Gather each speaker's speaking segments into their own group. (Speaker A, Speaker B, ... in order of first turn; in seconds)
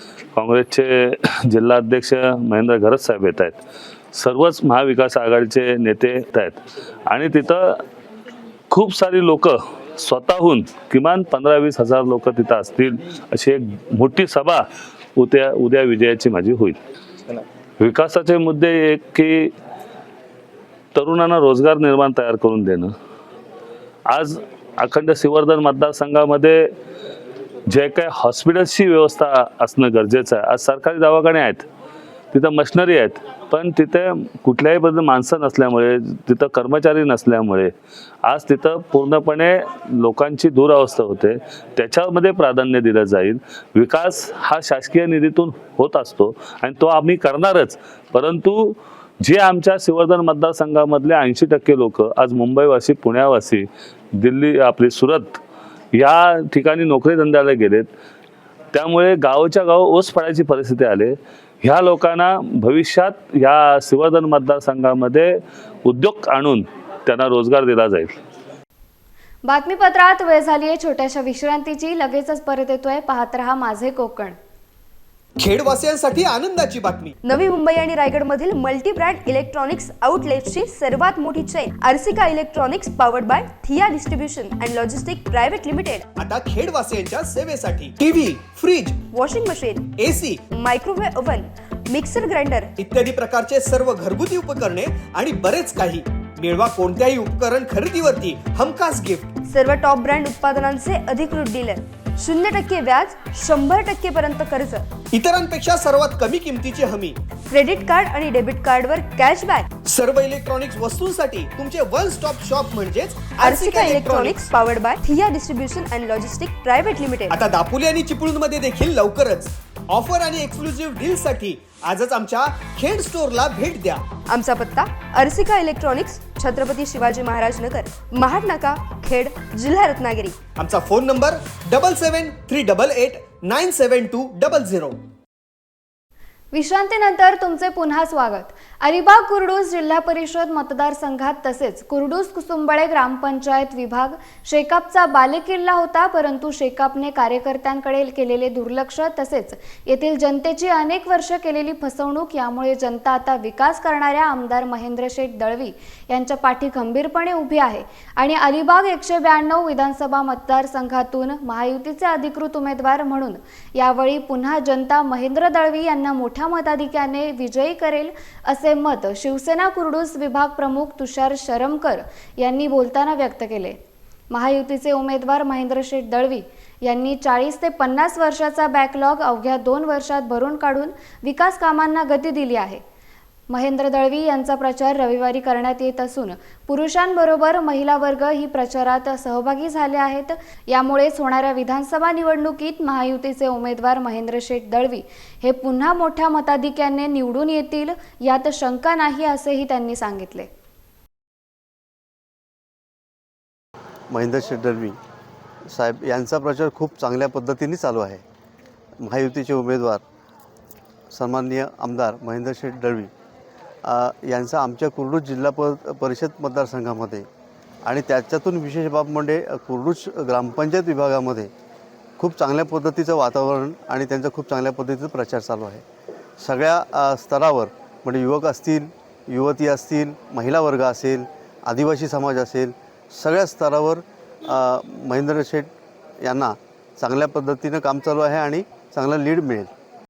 Speaker A: 0.3-3.6, 4.2-7.8, 8.7-14.6, 15.2-16.8, 17.8-19.5, 20.9-22.9, 24.1-26.6, 27.7-31.6, 32.3-37.7, 38.2-53.6, 54.2-55.4, 56.0-57.9, 58.7-65.3, 65.9-68.2
Speaker B: 69.5-74.4, 136.5-173.8, 174.3-182.8, 183.5-200.5
Speaker C: 75.4-77.1, 86.2-89.0, 90.0-90.4, 92.8-99.3, 105.1-107.2, 109.9-114.3, 117.4-124.0, 130.6-135.0
Speaker D: 77.2-86.1, 89.1-90.0, 90.5-92.7, 99.5-104.9, 107.5-109.7, 113.4-117.5, 124.3-130.4
Speaker E: 204.1-205.0, 205.7-208.2, 209.0-210.0, 211.1-213.1, 213.8-217.3, 217.8-221.5, 222.2-225.8, 226.4-235.7, 236.2-239.7